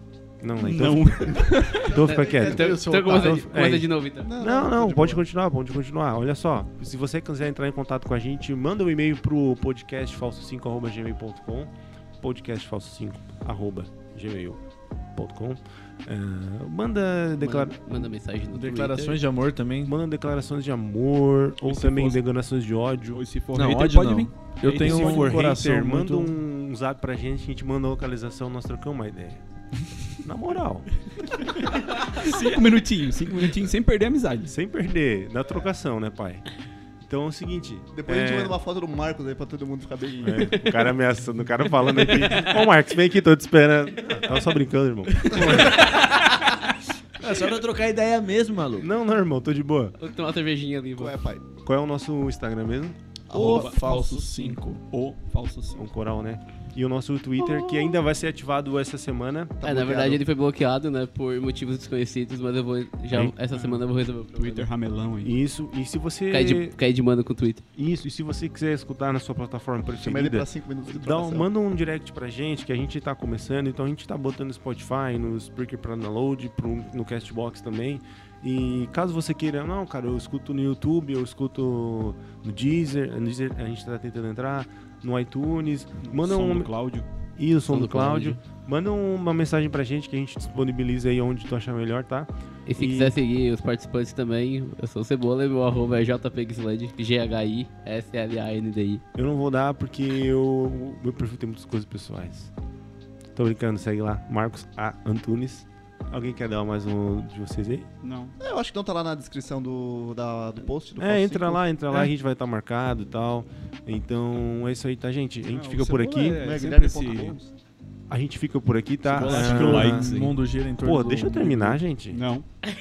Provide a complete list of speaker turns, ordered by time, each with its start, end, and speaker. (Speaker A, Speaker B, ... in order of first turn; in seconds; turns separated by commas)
Speaker A: 0.4-14.6, Speaker B: 0.6-1.9, Speaker C: 1.5-3.8, Speaker D: 1.8-4.3, Speaker E: 4.2-5.2, Speaker A: 15.1-17.8, Speaker D: 17.4-19.2, Speaker C: 18.5-19.9, Speaker A: 19.8-23.2, Speaker C: 21.7-22.0, Speaker B: 21.9-22.2, Speaker B: 23.1-25.4, Speaker C: 23.5-26.4, Speaker A: 24.7-29.4, Speaker A: 30.2-31.1, Speaker B: 31.6-34.5, Speaker A: 34.5-36.5, Speaker A: 37.0-38.6, Speaker E: 37.9-40.5, Speaker A: 40.2-46.1, Speaker D: 40.4-40.8, Speaker B: 45.1-45.9, Speaker C: 45.3-46.4, Speaker C: 47.2-48.9, Speaker A: 48.8-50.0, Speaker D: 50.0-51.1, Speaker E: 51.0-51.5, Speaker A: 51.6-53.0, Speaker E: 53.3-53.8, Speaker C: 53.3-54.8, Speaker B: 53.3-55.9, Speaker A: 55.7-59.6, Speaker E: 59.6-60.2, Speaker D: 59.6-64.7, Speaker B: 63.5-63.8, Speaker B: 64.3-65.3, Speaker A: 65.2-66.8, Speaker D: 66.3-67.6, Speaker A: 67.8-93.2, Speaker E: 69.9-71.5, Speaker B: 86.0-87.1, Speaker D: 87.7-88.4, Speaker D: 92.7-99.0, Speaker A: 99.1-102.5, Speaker A: 103.3-107.9, Speaker B: 108.0-108.4, Speaker E: 108.4-112.0, Speaker A: 111.0-116.4, Speaker B: 115.5-117.4, Speaker E: 116.4-117.5, Speaker A: 118.1-120.1, Speaker C: 119.1-121.8, Speaker B: 119.2-120.4, Speaker A: 120.8-122.2, Speaker B: 122.1-122.5